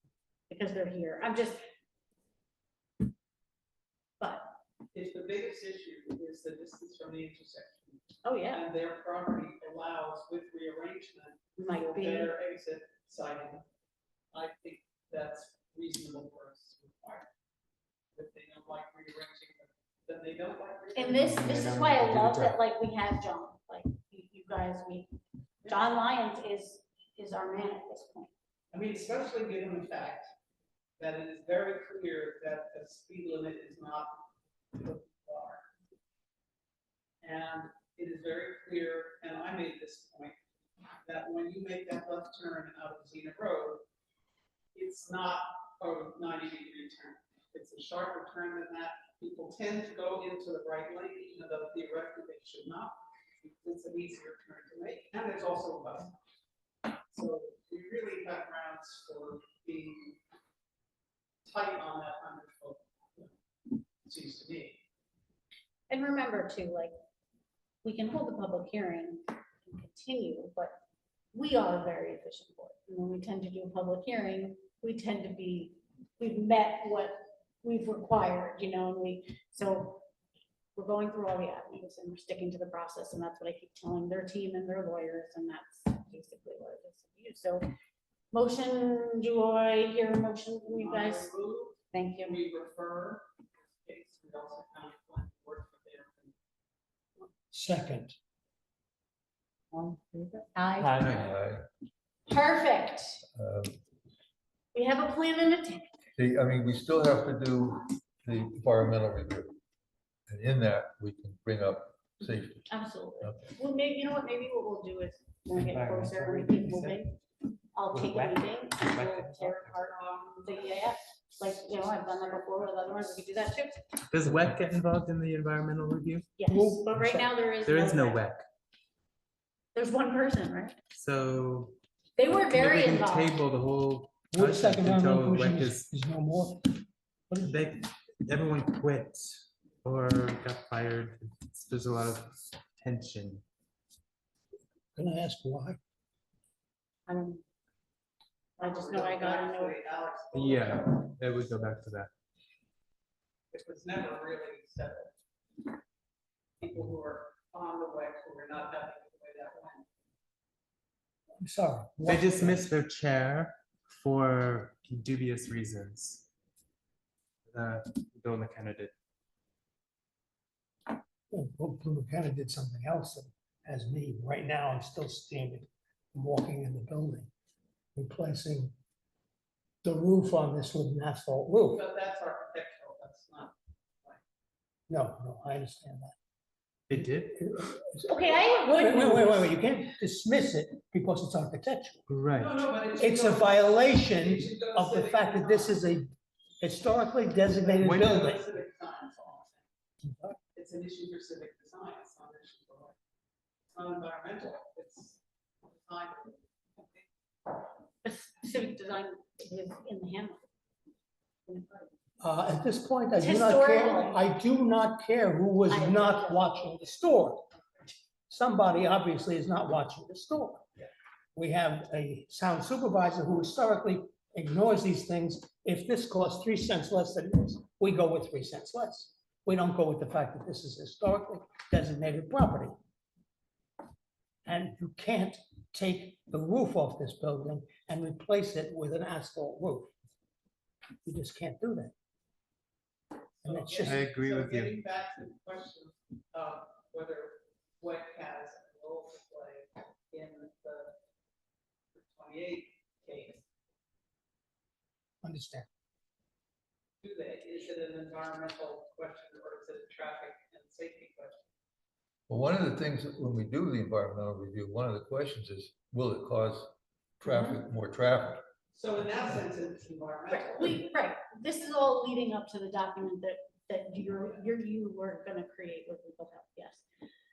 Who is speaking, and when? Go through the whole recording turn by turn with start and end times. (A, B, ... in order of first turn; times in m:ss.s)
0:00.5-0:01.7 A
0:04.2-0:04.5 A
0:04.9-0:13.6 B
0:08.2-0:08.6 A
0:11.6-0:12.3 A
0:14.3-0:17.3 B
0:18.1-0:21.3 B
0:20.9-0:28.3 A
0:21.1-0:22.6 C
0:25.6-0:26.0 B
0:28.7-0:30.3 B
0:31.0-0:35.6 B
0:37.2-0:40.4 B
0:41.0-0:43.8 B
0:44.7-0:56.1 B
0:57.1-1:00.2 B
1:01.4-1:03.3 B
1:04.0-1:04.8 B
1:05.9-1:06.9 A
1:07.8-1:10.8 A
1:11.3-1:20.0 A
1:20.7-1:27.7 A
1:28.3-1:31.3 A
1:30.7-1:36.3 B
1:31.9-1:32.4 A
1:37.5-1:38.2 D
1:39.7-1:40.9 A
1:40.8-1:41.2 C
1:41.0-1:41.7 E
1:42.3-1:43.2 A
1:43.3-1:43.8 E
1:44.7-1:46.0 A
1:46.2-1:49.6 E
1:50.3-1:52.7 E
1:52.7-1:57.2 A
1:53.2-1:53.5 E
1:55.5-1:57.0 C
1:57.7-2:03.9 A
1:57.9-1:59.8 C
2:04.1-2:06.3 C
2:06.4-2:08.2 A
2:06.5-2:07.3 D
2:07.6-2:08.4 C
2:09.7-2:10.8 A
2:10.9-2:11.8 C
2:12.2-2:13.4 A
2:12.4-2:15.9 C
2:14.3-2:17.6 D
2:17.4-2:23.4 C
2:24.9-2:25.8 D
2:27.0-2:27.4 A
2:28.6-2:29.8 A
2:28.6-2:31.1 B
2:30.3-2:32.1 C
2:33.5-2:35.1 B
2:36.6-2:39.8 B
2:41.4-2:42.7 D
2:42.0-2:46.3 C
2:47.5-2:48.9 C
2:51.3-2:57.3 D
2:58.0-2:58.7 D
2:59.8-3:01.8 D
3:01.6-3:04.2 B
3:04.9-3:06.1 D
3:06.9-3:07.3 C
3:07.1-3:12.0 D
3:08.0-3:09.5 A
3:12.1-3:12.6 C
3:12.4-3:15.8 B
3:13.0-3:18.4 D
3:17.5-3:19.6 B
3:17.8-3:18.2 C
3:20.0-3:20.4 D
3:20.5-3:22.9 B
3:23.7-3:27.0 B
3:28.0-3:30.5 A
3:31.4-3:31.9 A
3:32.2-3:37.5 D
3:33.2-3:34.2 A
3:35.7-3:36.6 A
3:38.3-3:40.7 D
3:41.3-3:52.7 D
3:54.4-3:59.9 D
4:01.0-4:01.9 D
4:03.4-4:10.9 B
4:03.4-4:04.0 D
4:03.8-4:04.8 C
4:11.9-4:13.4 B
4:15.2-4:15.7 D
4:17.0-4:21.5 B
4:22.3-4:28.4 E
4:27.3-4:27.6 A
4:28.7-4:30.9 B
4:30.3-4:36.8 A